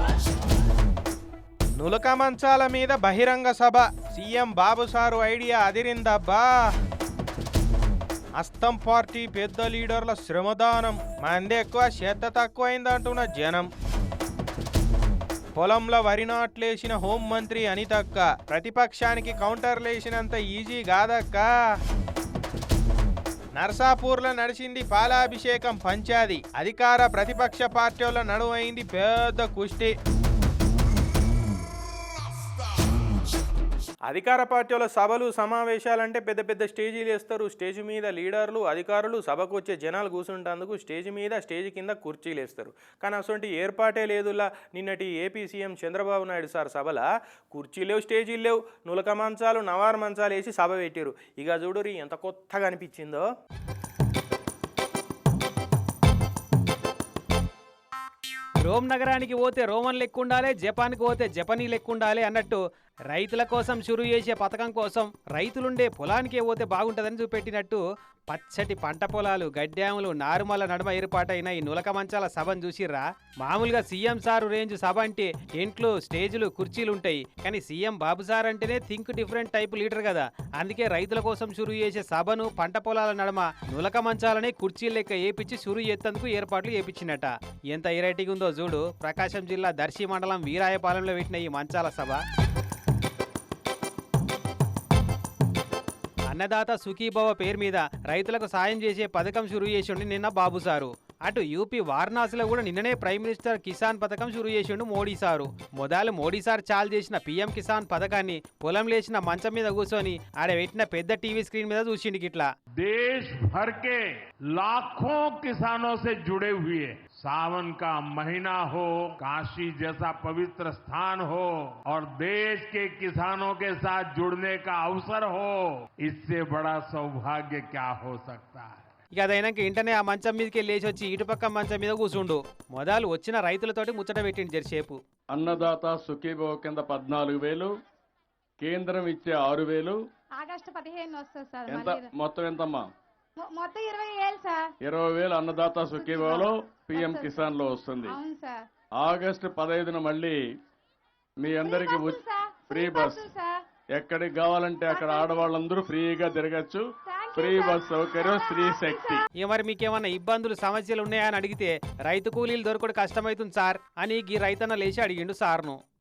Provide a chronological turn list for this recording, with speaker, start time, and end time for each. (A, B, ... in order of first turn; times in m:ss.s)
0:01.7-0:06.7 A
0:08.4-0:13.7 A
0:15.6-0:21.8 A
0:23.6-0:29.9 A
0:34.1-0:53.2 A
0:58.6-1:32.2 B
1:36.3-1:52.5 B
1:52.8-2:08.8 C
2:09.1-2:15.0 B
2:15.3-2:17.7 D
2:18.6-2:20.0 D
2:20.3-2:22.1 E
2:21.7-2:22.9 D
2:23.4-2:24.7 E
2:24.8-2:28.2 D
2:25.9-2:27.4 E
2:28.0-2:28.7 E
2:29.0-2:30.3 D
2:31.4-2:33.3 D
2:31.6-2:33.6 E
2:33.9-2:36.8 D
2:34.9-2:35.5 E
2:37.0-2:39.2 E
2:37.3-2:39.2 D
2:39.4-2:45.8 B